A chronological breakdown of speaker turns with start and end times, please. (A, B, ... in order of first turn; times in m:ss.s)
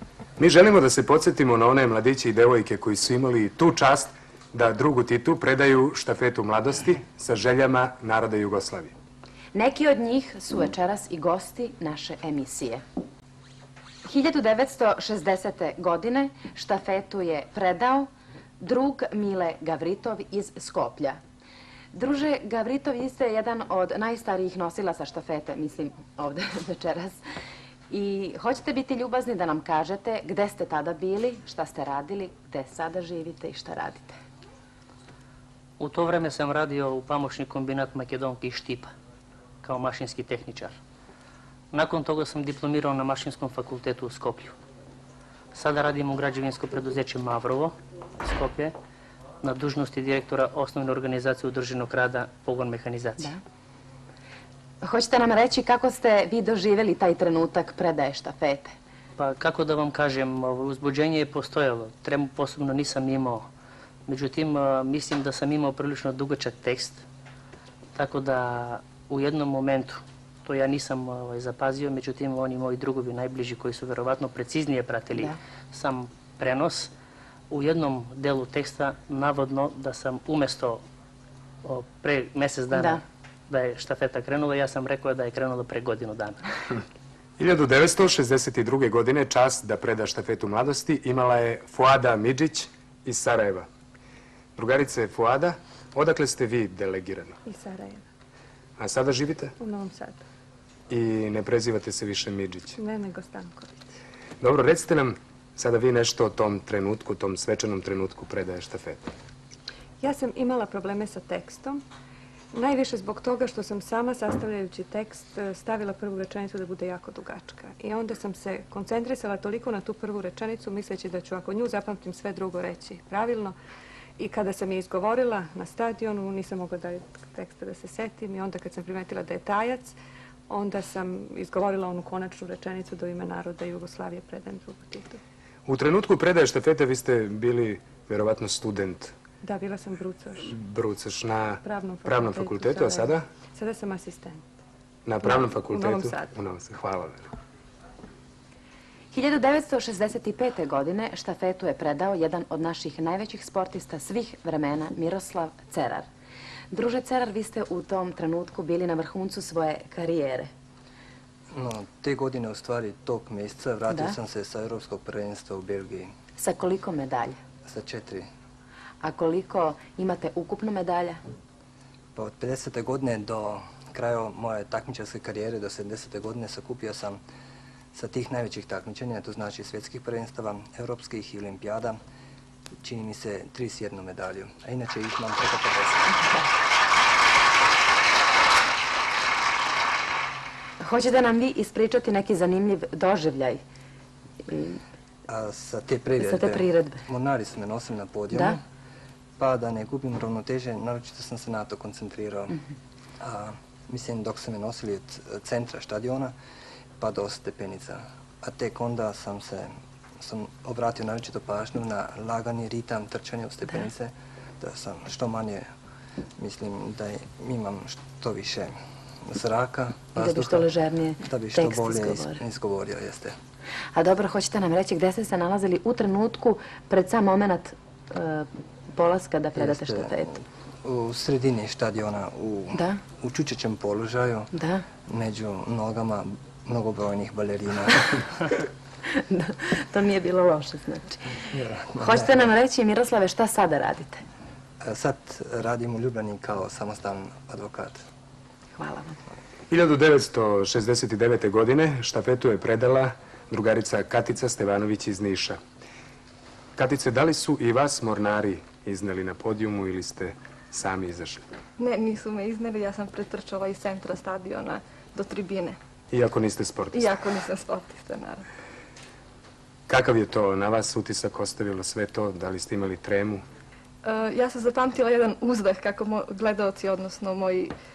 0:00.4-0:08.9 A
0:09.6-0:12.8 B
0:14.0-0:21.2 B
0:21.9-0:27.2 B
0:27.9-0:34.2 B
0:35.8-0:38.9 C
0:39.6-0:40.8 C
0:41.7-0:44.6 C
0:45.5-0:48.7 C
0:49.4-0:53.3 C
0:54.8-0:58.7 B
0:59.2-1:03.5 C
1:04.1-1:07.0 C
1:08.0-1:16.9 C
1:17.5-1:20.8 C
1:21.6-1:26.4 C
1:22.7-1:23.0 B
1:27.4-1:33.7 A
1:34.6-1:37.3 A
1:37.5-1:38.0 D
1:38.8-1:39.5 A
1:39.6-1:40.2 D
1:40.9-1:42.8 A
1:42.8-1:43.9 D
1:44.4-1:49.1 A
1:50.0-1:51.8 D
1:52.5-2:03.6 D
2:04.2-2:09.9 D
2:10.5-2:15.2 D
2:15.7-2:19.1 A
2:19.4-2:20.5 D
2:20.5-2:23.2 A
2:21.6-2:24.4 D
2:25.1-2:27.3 A
2:25.2-2:26.4 D
2:29.1-2:36.1 B
2:36.7-2:40.5 B
2:41.5-2:46.1 E
2:43.9-2:44.2 B
2:46.4-2:47.4 B
2:47.7-2:48.3 E
2:49.0-2:51.2 B
2:52.2-2:57.2 E
2:57.9-3:02.0 E
3:02.8-3:06.2 E
3:10.8-3:13.6 B
3:14.5-3:14.8 B
3:15.3-3:18.6 E
3:16.2-3:17.0 B
3:18.3-3:18.6 B
3:19.4-3:22.6 E
3:23.2-3:26.3 E
3:27.0-3:35.7 E
3:36.4-3:38.8 E
3:39.3-3:40.7 E
3:40.2-3:42.4 B
3:41.2-3:43.4 E
3:44.0-3:50.3 B
3:49.6-3:50.3 E
3:50.8-3:54.5 E
3:54.5-3:54.8 B
3:55.1-3:58.2 E
3:59.1-4:04.2 B
4:01.5-4:02.4 E
4:04.8-4:08.0 E
4:08.8-4:09.2 B
4:09.7-4:15.6 A
4:16.8-4:21.4 A
4:21.8-4:25.8 F
4:26.1-4:27.2 A
4:26.9-4:28.4 F
4:29.9-4:33.4 A
4:34.0-4:37.7 F